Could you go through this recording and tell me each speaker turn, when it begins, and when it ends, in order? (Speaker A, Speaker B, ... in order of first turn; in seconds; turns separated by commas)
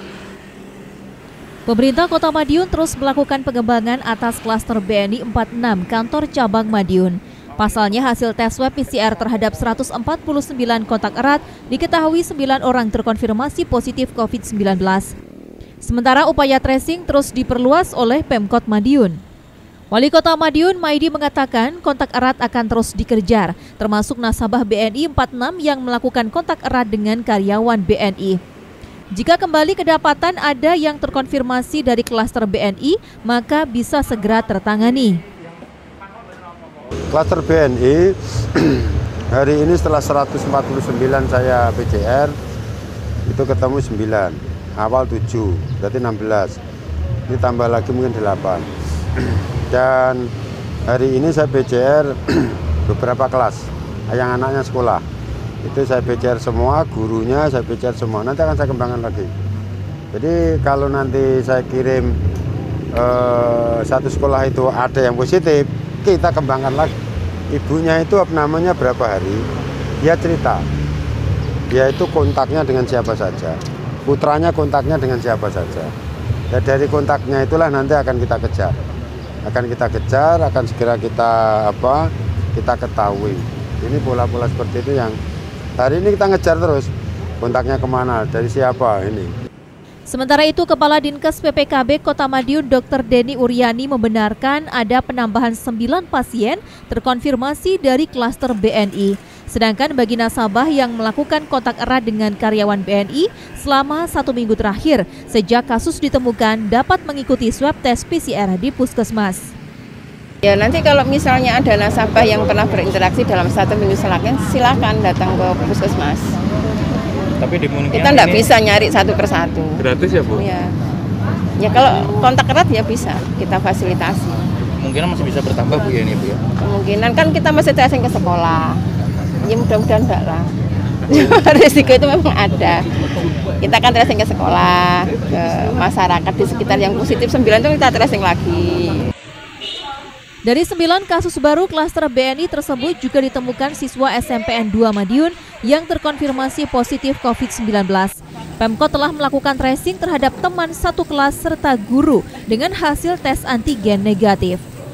Speaker A: 1.7-15.1, Speaker A: 15.8-19.2, Speaker A: 19.9-28.4, Speaker A: 29.1-35.2, Speaker B: 37.1-42.3, Speaker B: 43.3-46.6, Speaker B: 47.3-48.7, Speaker B: 49.3-50.3, Speaker B: 50.9-55.0, Speaker B: 55.6-59.3, Speaker B: 60.1-62.2, Speaker B: 62.9-67.0, Speaker B: 67.5-69.4, Speaker B: 70.0-70.6, Speaker B: 71.7-75.9, Speaker B: 76.5-78.7, Speaker B: 79.4-82.0, Speaker B: 82.5-85.2, Speaker B: 85.8-86.9, Speaker B: 87.4-89.3, Speaker A: 90.1-109.5, Speaker C: 110.4-116.3, Speaker D: 117.4-118.5, Speaker C: 117.9-120.7, Speaker D: 120.0-120.4, Speaker C: 121.6-124.4, Speaker D: 124.8-126.4, Speaker C: 126.6-128.8, Speaker C: 129.4-130.5, Speaker C: 131.1-132.9, Speaker C: 133.6-139.0, Speaker A: 140.4-154.6